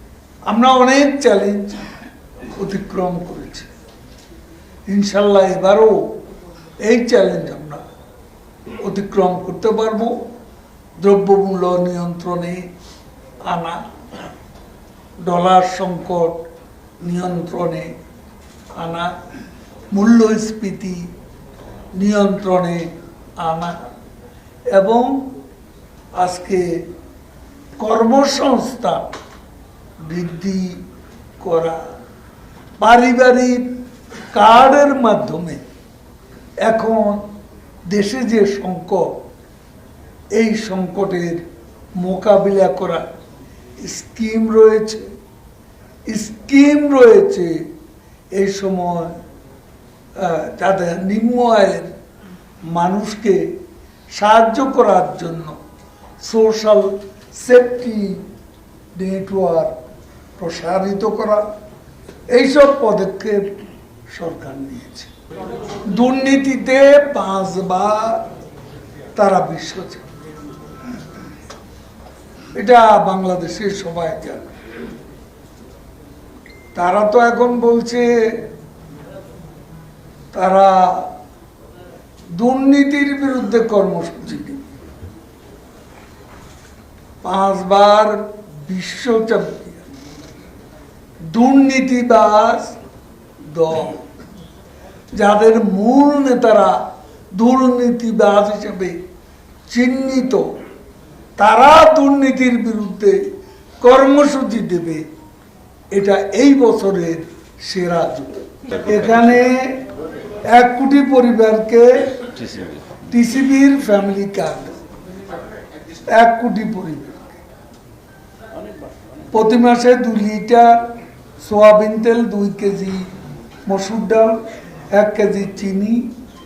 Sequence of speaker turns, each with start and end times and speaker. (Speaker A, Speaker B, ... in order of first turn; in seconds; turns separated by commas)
Speaker A: 0.5-1.8, Speaker A: 2.6-3.7, Speaker A: 4.9-6.0, Speaker A: 6.8-7.8, Speaker A: 8.8-10.1, Speaker A: 11.0-12.6, Speaker A: 13.5-13.8, Speaker A: 15.2-16.5, Speaker A: 17.0-17.9, Speaker A: 18.8-19.1, Speaker A: 19.9-21.0, Speaker A: 21.9-22.9, Speaker A: 23.4-23.7, Speaker A: 24.7-25.3, Speaker A: 26.2-26.6, Speaker A: 27.8-29.1, Speaker A: 30.1-30.8, Speaker A: 31.4-31.8, Speaker A: 32.8-33.6, Speaker A: 34.3-35.6, Speaker A: 36.6-37.2, Speaker A: 37.9-39.1, Speaker A: 40.3-41.4, Speaker A: 42.0-43.0, Speaker A: 43.8-45.0, Speaker A: 46.1-47.5, Speaker A: 48.4-49.1, Speaker A: 50.2-51.9, Speaker A: 52.7-53.4, Speaker A: 54.1-55.5, Speaker A: 56.2-58.1, Speaker A: 59.0-59.7, Speaker A: 60.4-61.4, Speaker A: 62.3-63.5, Speaker A: 64.1-65.1, Speaker A: 65.9-68.2, Speaker A: 69.2-70.1, Speaker A: 72.5-74.5, Speaker A: 76.7-78.1, Speaker A: 80.3-81.1, Speaker A: 82.3-84.6, Speaker A: 87.2-89.8, Speaker A: 91.3-92.7, Speaker A: 93.5-94.0, Speaker A: 95.2-96.8, Speaker A: 97.3-99.0, Speaker A: 99.7-100.4, Speaker A: 101.4-103.2, Speaker A: 103.8-105.0, Speaker A: 105.9-109.8, Speaker A: 110.5-112.1, Speaker A: 113.1-114.7, Speaker A: 116.1-117.4, Speaker A: 119.3-120.8, Speaker A: 121.4-123.1, Speaker A: 123.7-124.4, Speaker A: 124.9-126.0